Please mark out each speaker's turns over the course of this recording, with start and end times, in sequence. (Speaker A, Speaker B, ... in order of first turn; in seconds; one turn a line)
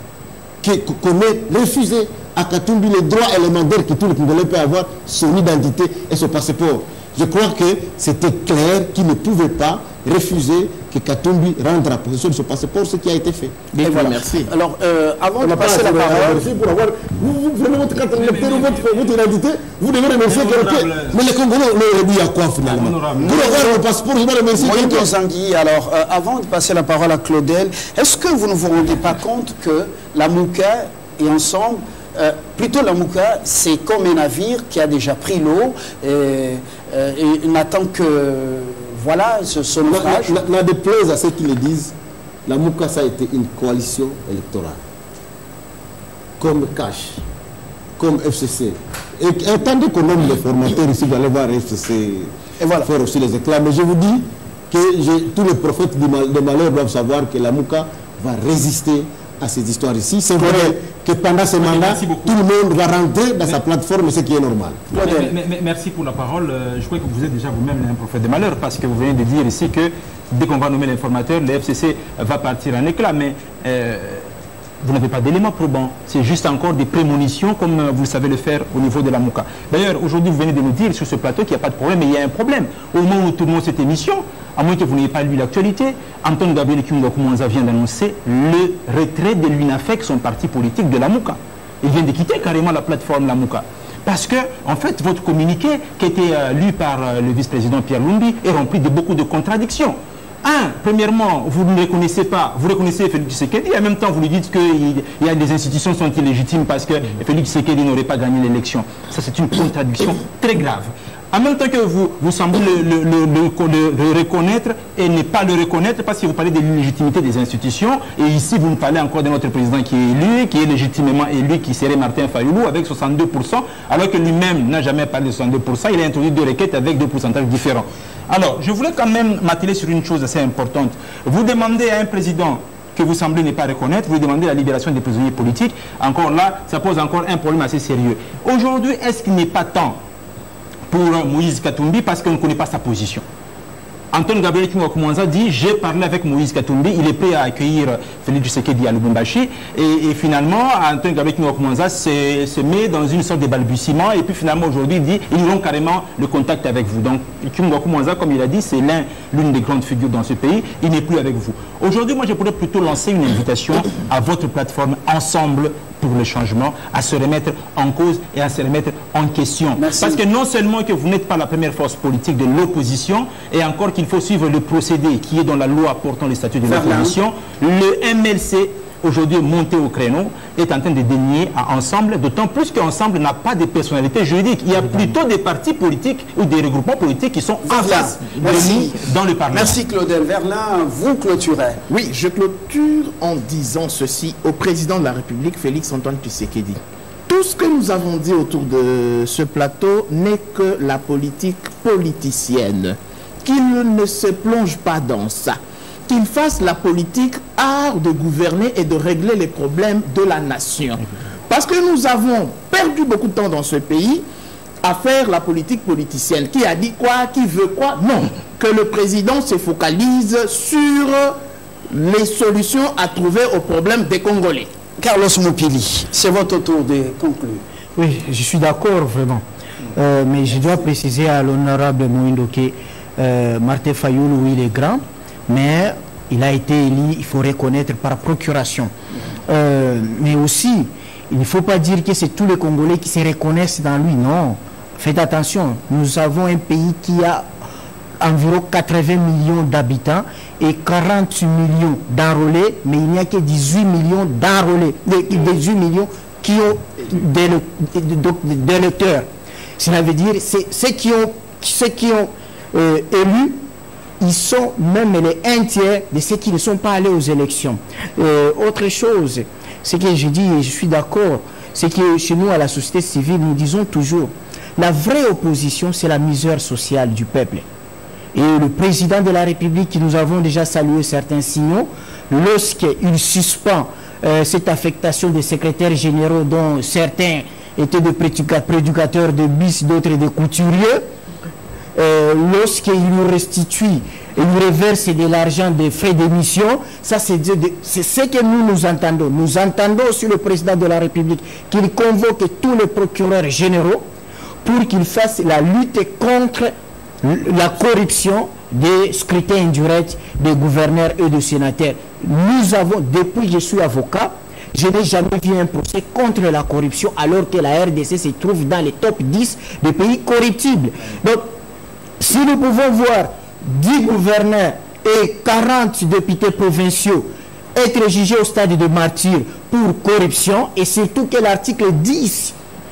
Speaker A: 0.6-13.6
Speaker B: 13.7-14.5
Speaker C: 13.8-16.4
Speaker A: 15.4-25.1
Speaker D: 18.1-18.9
Speaker D: 20.3-21.2
Speaker D: 22.6-23.6
Speaker C: 23.2-23.8
Speaker C: 24.5-40.4
Speaker A: 39.9-41.9
Speaker A: 42.5-44.8
Speaker A: 46.4-47.2
Speaker A: 48.0-64.8
Speaker C: 52.6-52.9
Speaker C: 60.4-60.8
Speaker D: 61.6-62.4
Speaker C: 64.9-65.3
Speaker D: 64.9-74.3
Speaker D: 74.8-140.0
Speaker D: 140.9-143.2
Speaker D: 144.1-189.8
Speaker C: 169.8-170.2
Speaker C: 176.7-177.2
Speaker C: 187.6-191.8
Speaker B: 191.9-214.2
Speaker B: 214.8-221.4
Speaker B: 221.9-224.7
Speaker C: 225.0-227.6
Speaker E: 227.9-229.4
Speaker E: 229.9-238.9
Speaker E: 239.5-247.4
Speaker E: 248.2-259.3
Speaker E: 259.8-263.6
Speaker E: 264.2-277.7
Speaker E: 278.3-291.1
Speaker E: 291.9-304.0
Speaker E: 304.6-321.5
Speaker E: 322.2-332.6